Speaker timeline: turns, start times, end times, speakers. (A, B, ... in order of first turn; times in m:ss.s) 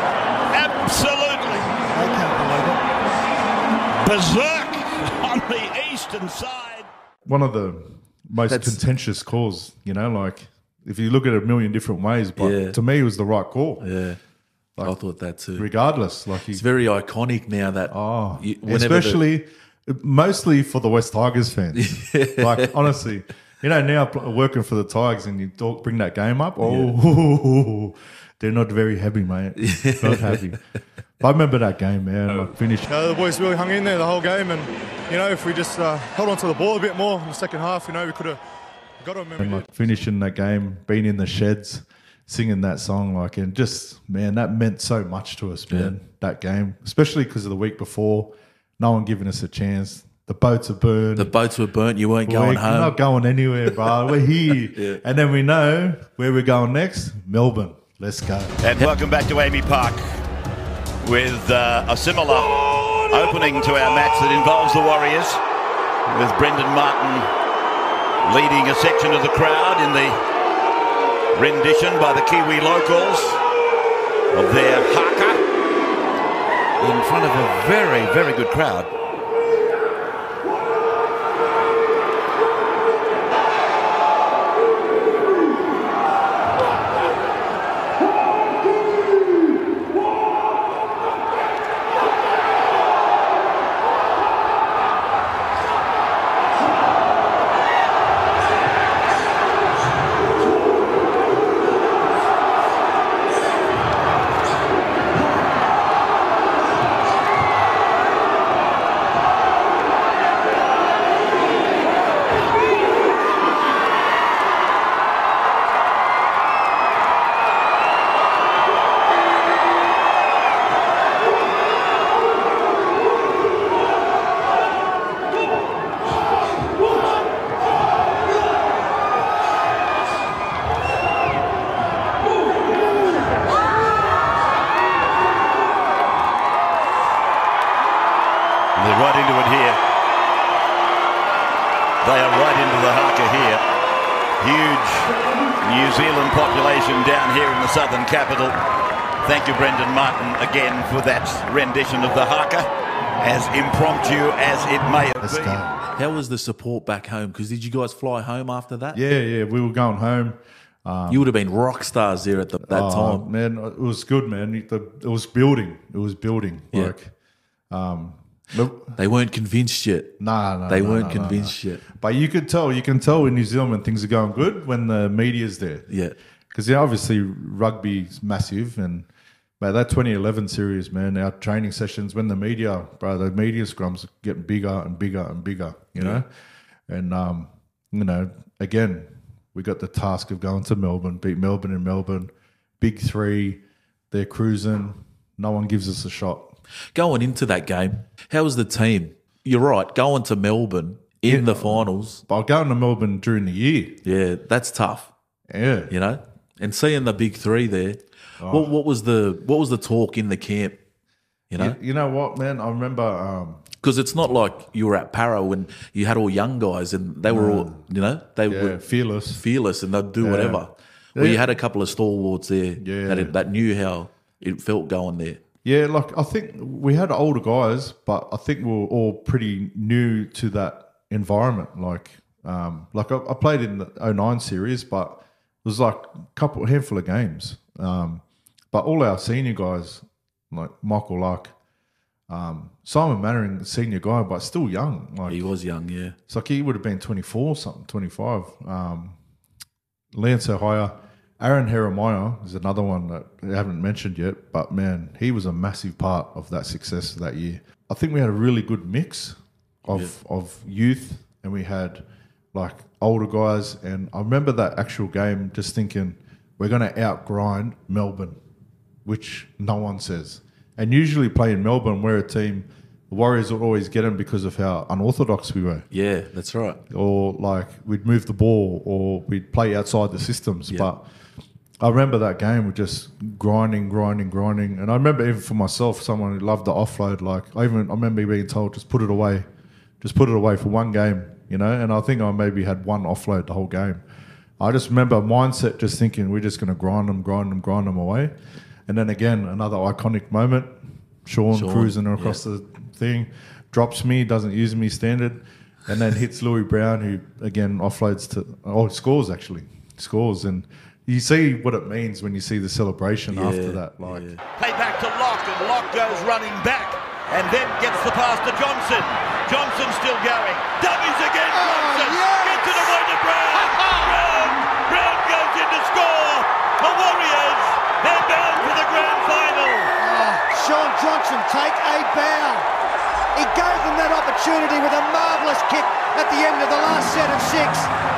0:00.5-0:01.7 A
0:01.9-0:02.8 B
0:04.0-0:06.9 A
0:07.2-0:13.9 C
0:08.5-0:08.8 D
0:12.4-0:12.8 D
0:13.8-0:14.2 D
0:14.8-0:15.7 D
0:15.6-0:16.6 C
0:16.5-0:19.2 D
0:17.9-0:30.6 C
0:21.8-0:22.7 D
0:26.6-0:27.0 D
0:29.6-0:30.6 D
0:31.2-0:33.0 C
0:32.9-0:38.4 E
0:39.0-0:39.6 E
0:39.4-0:51.3 C
0:51.2-0:53.0 D
0:52.3-0:58.6 C
0:54.7-0:55.0 D
0:58.6-1:00.2 A
1:01.0-1:05.4 A
1:06.1-1:07.3 A
1:08.2-1:10.2 A
1:11.3-1:13.4 A
1:14.3-1:15.4 A
1:16.8-1:18.9 A
2:18.8-2:19.8 A
2:22.0-2:23.6 A
2:24.4-2:28.6 A
2:29.2-2:32.7 A
2:33.2-2:35.6 A
2:35.2-2:35.8 C
2:36.0-2:39.0 D
2:38.9-2:41.3 C
2:41.1-2:43.3 D
2:42.6-2:47.1 C
2:47.7-2:49.0 C
2:49.0-2:51.8 D
2:50.2-2:55.9 C
2:55.9-2:56.2 D
2:56.5-2:59.1 C
2:59.6-3:06.3 C
3:06.0-3:06.2 D
3:06.9-3:16.6 C
3:16.9-3:22.2 D
3:21.2-3:24.0 C
3:24.0-3:25.1 D
3:25.5-3:25.9 C
3:25.9-3:30.8 D
3:28.4-3:28.7 C
3:31.5-3:31.8 D
3:31.6-3:33.6 C
3:33.8-3:45.4 D
3:37.3-3:37.8 C
3:38.5-3:39.4 C
3:40.2-3:41.5 C
3:42.8-3:43.4 C
3:45.6-4:01.6 C
4:02.3-4:05.4 C
4:05.3-4:06.2 D
4:06.3-4:09.2 C
4:10.1-4:28.4 C
4:29.0-4:35.9 C
4:35.9-4:36.8 D
4:36.9-4:41.1 C
4:41.8-4:49.5 C
4:50.0-4:54.0 C
4:54.6-4:58.3 C
4:58.9-5:00.7 C
5:01.2-5:14.3 C
5:01.5-5:02.4 D
5:13.3-5:14.4 D
5:14.6-5:29.9 A
5:21.5-5:23.0 B
5:23.6-5:24.0 B
5:30.0-5:32.7 B
5:33.4-5:37.9 B